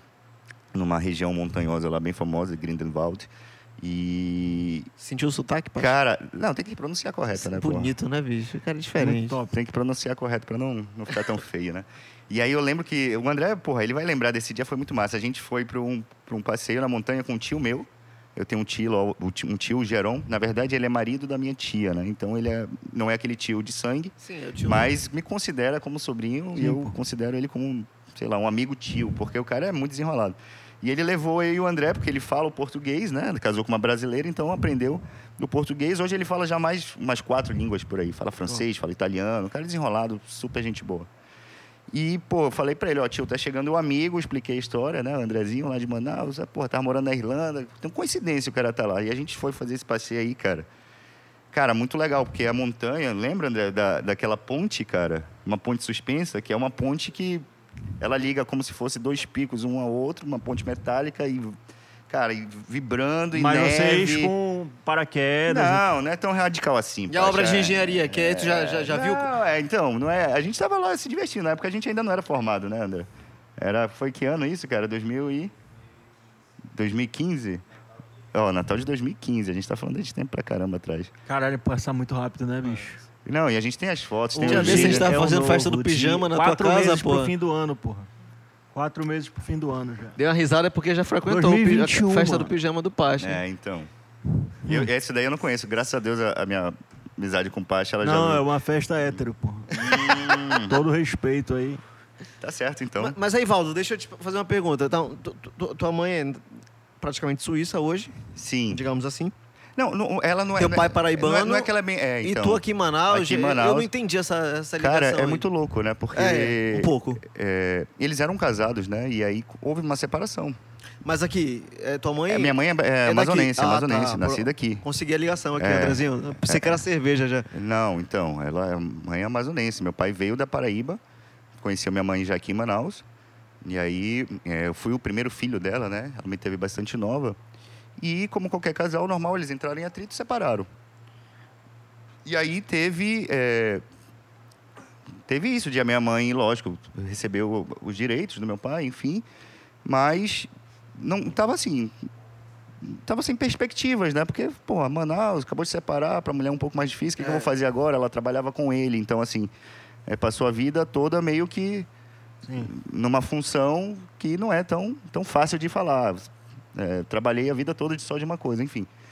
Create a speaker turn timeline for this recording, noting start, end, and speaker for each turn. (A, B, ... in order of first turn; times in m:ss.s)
0:00.7-0:04.9 A
0:05.0-0:06.0 B
0:05.8-0:07.9 A
0:07.4-0:09.4 B
0:09.0-0:09.5 C
0:09.5-0:41.1 A
0:24.2-0:24.9 B
0:26.6-0:27.0 C
0:41.9-0:50.7 A
0:51.5-0:57.4 A
0:58.0-1:01.6 A
1:02.1-1:04.3 A
1:03.3-1:05.9 C
1:05.5-1:15.5 A
1:07.1-1:09.3 B
1:16.7-1:17.6 A
1:18.3-1:21.1 A
1:21.3-1:23.0 C
1:23.2-1:25.2 A
1:24.3-1:27.3 B
1:24.4-1:28.1 C
1:28.7-1:30.2 C
1:30.2-1:33.4 B
1:31.3-1:32.5 C
1:33.2-1:33.9 A
1:34.7-1:38.5 A
1:38.0-1:41.8 C
1:39.7-1:40.8 A
1:42.4-1:43.2 A
1:43.0-1:46.4 B
1:47.0-1:48.2 B
1:48.4-1:48.8 A
1:48.7-1:49.3 B
1:49.8-1:53.9 A
1:50.6-1:51.7 B
1:52.2-1:55.4 B
1:54.8-2:00.6 A
1:56.2-1:57.2 B
2:01.0-2:07.5 B
2:02.3-2:04.8 A
2:05.6-2:06.8 A
2:07.5-2:11.0 A
2:11.6-2:13.0 A
2:13.6-2:17.4 A
2:18.0-2:20.7 A
2:22.2-2:23.8 A
2:25.3-2:29.2 A
2:29.8-2:32.1 A
2:32.8-2:39.5 A
2:37.2-2:37.5 B
2:40.1-2:41.9 A
2:42.6-2:48.9 A